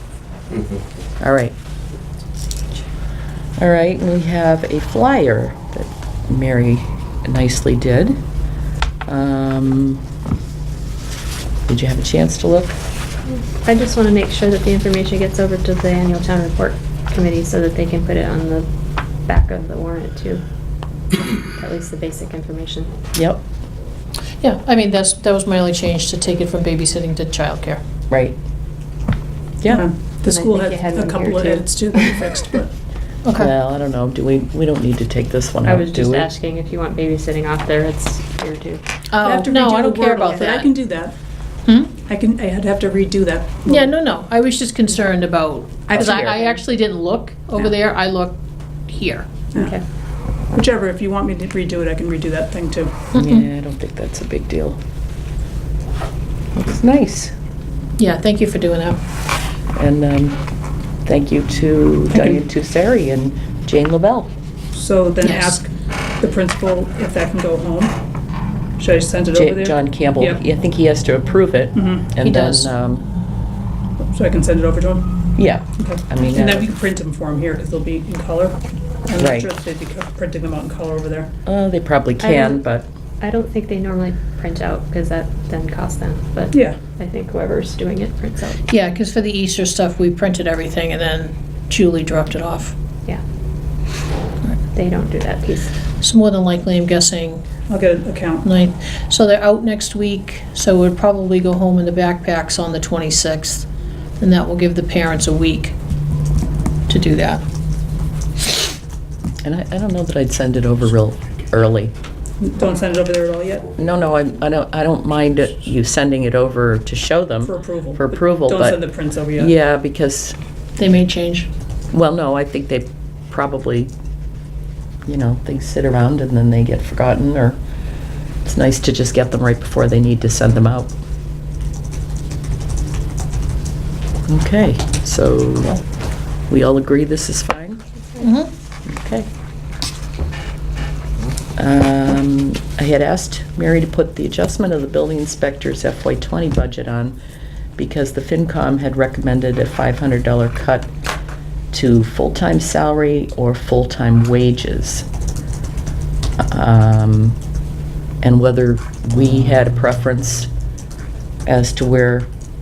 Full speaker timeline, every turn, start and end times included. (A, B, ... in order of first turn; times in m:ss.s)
0:01.2-0:01.5 A
0:03.6-0:08.2 A
0:09.1-0:10.0 A
0:11.7-0:12.8 A
0:13.3-0:18.7 B
0:19.3-0:20.4 B
0:21.3-0:22.9 B
0:23.2-0:23.4 A
0:24.4-0:27.8 C
0:28.1-0:28.4 A
0:29.7-0:32.7 D
0:30.3-0:32.2 B
0:33.2-0:33.5 C
0:33.4-0:36.3 A
0:35.7-0:38.8 B
0:39.1-0:40.8 C
0:39.2-0:41.2 D
0:41.7-0:42.0 C
0:42.0-0:43.9 D
0:43.7-0:49.3 C
0:45.9-0:46.6 A
0:49.6-0:49.8 B
0:50.5-0:53.1 D
0:53.1-0:53.5 C
0:53.2-0:54.8 A
0:56.6-0:57.3 A
0:58.0-0:59.0 C
0:59.8-1:00.4 A
1:01.0-1:04.3 A
1:02.1-1:02.4 D
1:04.7-1:08.0 D
1:05.2-1:05.6 C
1:08.8-1:10.4 D
1:09.3-1:13.1 A
1:11.7-1:12.1 D
1:12.2-1:12.7 C
1:14.1-1:15.1 D
1:15.4-1:16.7 A
1:15.8-1:21.3 D
1:19.2-1:19.5 A
1:21.5-1:22.9 A
1:22.2-1:22.6 B
1:23.2-1:28.7 B
1:26.5-1:26.8 D
1:28.7-1:32.8 C
1:34.7-1:35.7 B
1:36.0-1:37.4 C
1:37.7-1:38.5 D
1:38.4-1:43.7 C
1:44.2-1:45.8 C
1:46.9-1:47.4 C
1:49.4-1:51.9 A
1:52.4-1:53.8 D
1:53.8-1:58.8 A
1:57.4-1:59.5 D
1:59.4-2:00.4 A
2:00.8-2:01.5 C
2:01.9-2:03.9 A
2:05.1-2:07.6 A
2:08.4-2:10.9 A
2:14.3-2:15.8 A
2:16.5-2:17.8 A
2:18.1-2:18.3 B
2:18.2-2:18.5 C
2:18.9-2:19.3 A
2:21.6-2:27.2 A
2:27.8-2:30.9 A
2:31.7-2:35.1 A
2:36.4-2:37.4 A
2:38.2-2:40.5 A
2:41.5-2:42.3 A